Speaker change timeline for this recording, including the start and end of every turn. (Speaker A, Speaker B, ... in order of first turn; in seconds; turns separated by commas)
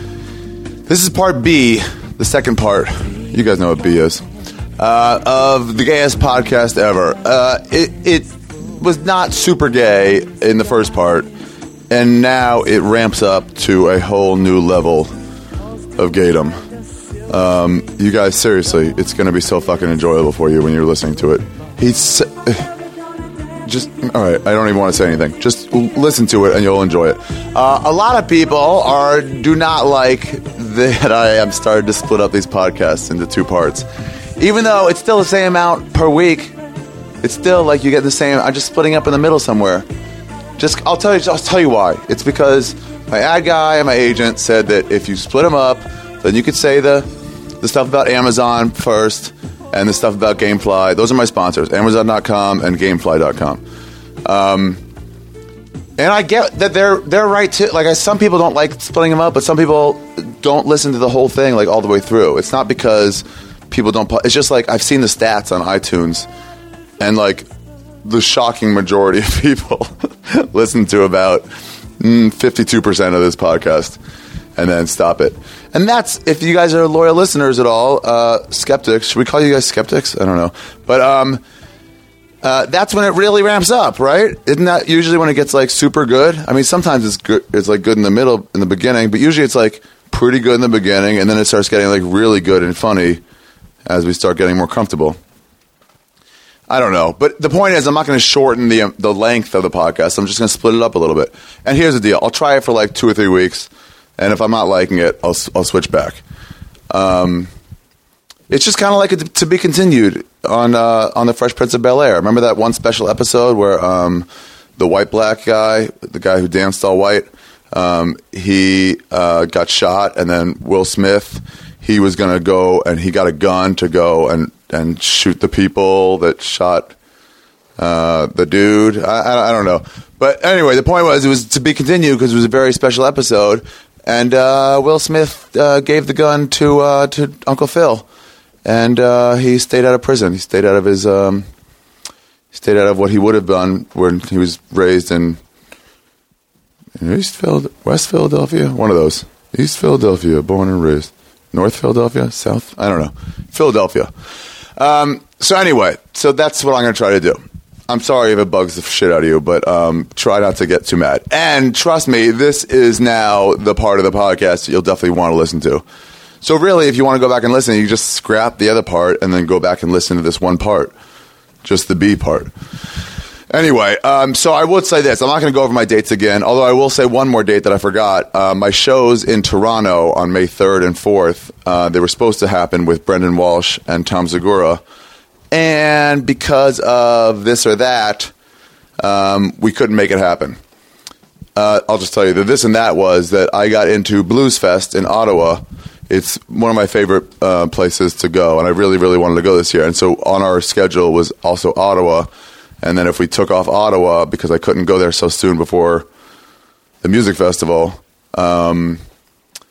Speaker A: 0.8-4.2, Speaker A: 4.8-11.3, Speaker A: 11.9-15.1, Speaker A: 15.9-16.5, Speaker A: 17.3-22.7, Speaker A: 23.6-33.9, Speaker A: 34.4-36.5, Speaker A: 37.2-39.9, Speaker A: 40.6-47.1, Speaker A: 47.6-53.6, Speaker A: 54.2-54.8, Speaker A: 56.0-66.3, Speaker A: 67.0-67.5, Speaker A: 68.0-71.5, Speaker A: 72.0-74.0, Speaker A: 74.5-81.4, Speaker A: 82.4-93.2, Speaker A: 93.8-95.2, Speaker A: 96.7-106.2, Speaker A: 106.9-107.5, Speaker A: 108.5-126.9, Speaker A: 127.8-138.1, Speaker A: 138.6-141.4, Speaker A: 142.5-145.4, Speaker A: 147.0-154.1, Speaker A: 154.8-165.8, Speaker A: 166.4-170.9, Speaker A: 171.6-172.5, Speaker A: 173.5-184.8, Speaker A: 185.5-188.3, Speaker A: 189.0-190.6, Speaker A: 191.6-202.3, Speaker A: 202.8-206.1, Speaker A: 207.0-209.0